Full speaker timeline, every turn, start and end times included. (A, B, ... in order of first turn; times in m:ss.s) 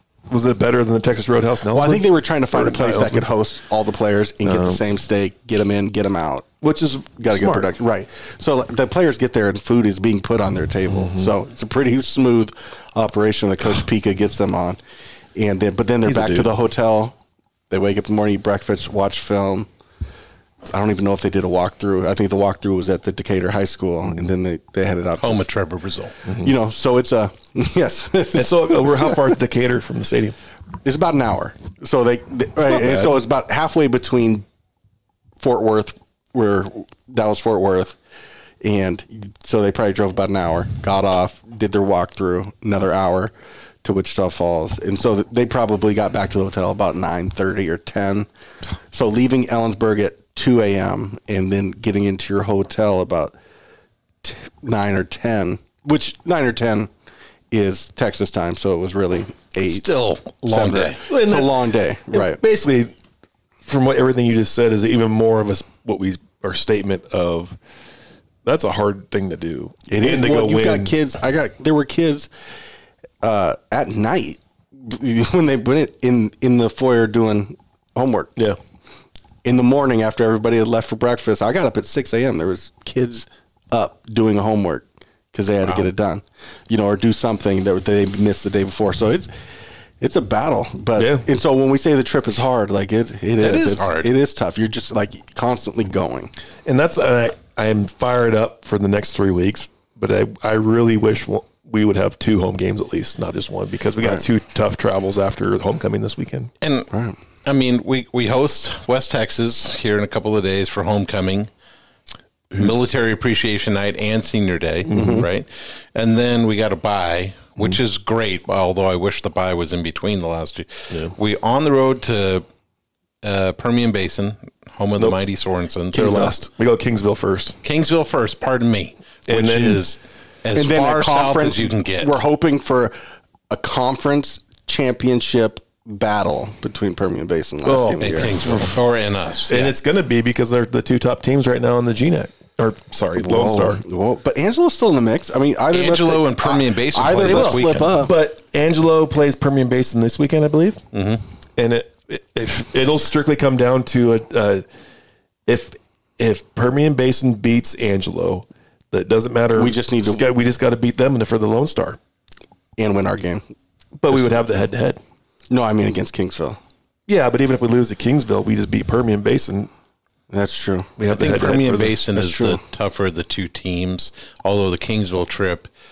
0:00.3-0:03.3 A
0:01.7-0:06.5 B
0:04.4-0:04.8 A
0:06.6-0:07.7 A
0:07.2-0:14.8 B
0:10.9-0:11.3 A
0:15.4-0:17.2 B
0:16.0-0:16.5 A
0:17.7-0:19.7 B
0:20.7-0:25.5 B
0:25.2-0:26.2 C
0:26.2-0:26.5 A
0:26.4-0:29.3 B
0:28.3-0:30.4 A
0:30.8-0:34.5 B
0:32.7-0:33.2 A
0:35.4-0:38.0 B
0:38.6-0:43.3 B
0:43.8-0:48.3 B
0:48.9-0:53.3 B
0:54.2-0:56.9 B
0:57.5-1:02.4 B
0:59.6-1:01.0 C
1:01.1-1:01.6 A
1:02.1-1:02.9 A
1:03.6-1:07.6 A
1:08.4-1:10.9 A
1:09.9-1:12.3 B
1:13.2-1:18.3 B
1:19.4-1:29.3 B
1:30.0-1:36.3 B
1:31.0-1:31.3 A
1:33.4-1:34.1 C
1:36.7-1:46.5 A
1:46.6-1:46.9 C
1:46.9-1:47.2 B
1:47.4-1:51.5 C
1:52.5-1:52.8 A
1:52.6-2:02.5 C
1:54.9-1:55.2 A
1:54.9-1:55.3 B
2:00.9-2:01.2 A
2:03.2-2:06.3 C
2:05.9-2:07.6 A
2:05.9-2:06.3 B
2:07.6-2:12.2 C
2:09.3-2:09.8 A
2:10.6-2:12.9 B
2:13.5-2:18.7 B
2:17.6-2:18.8 A
2:18.0-2:19.7 C
2:19.5-2:23.8 A
2:23.2-2:28.1 B
2:25.7-2:27.9 C
2:27.2-2:30.8 A
2:30.9-2:31.2 C
2:31.6-2:34.6 A
2:35.5-2:42.0 A
2:39.5-2:40.3 B
2:42.8-2:43.5 B
2:44.0-2:45.0 A
2:44.1-2:44.4 B
2:45.5-2:46.6 B
2:47.1-2:49.7 A
2:50.3-2:50.9 B
2:51.0-2:52.0 A
2:51.1-2:55.7 C
2:52.1-2:52.6 B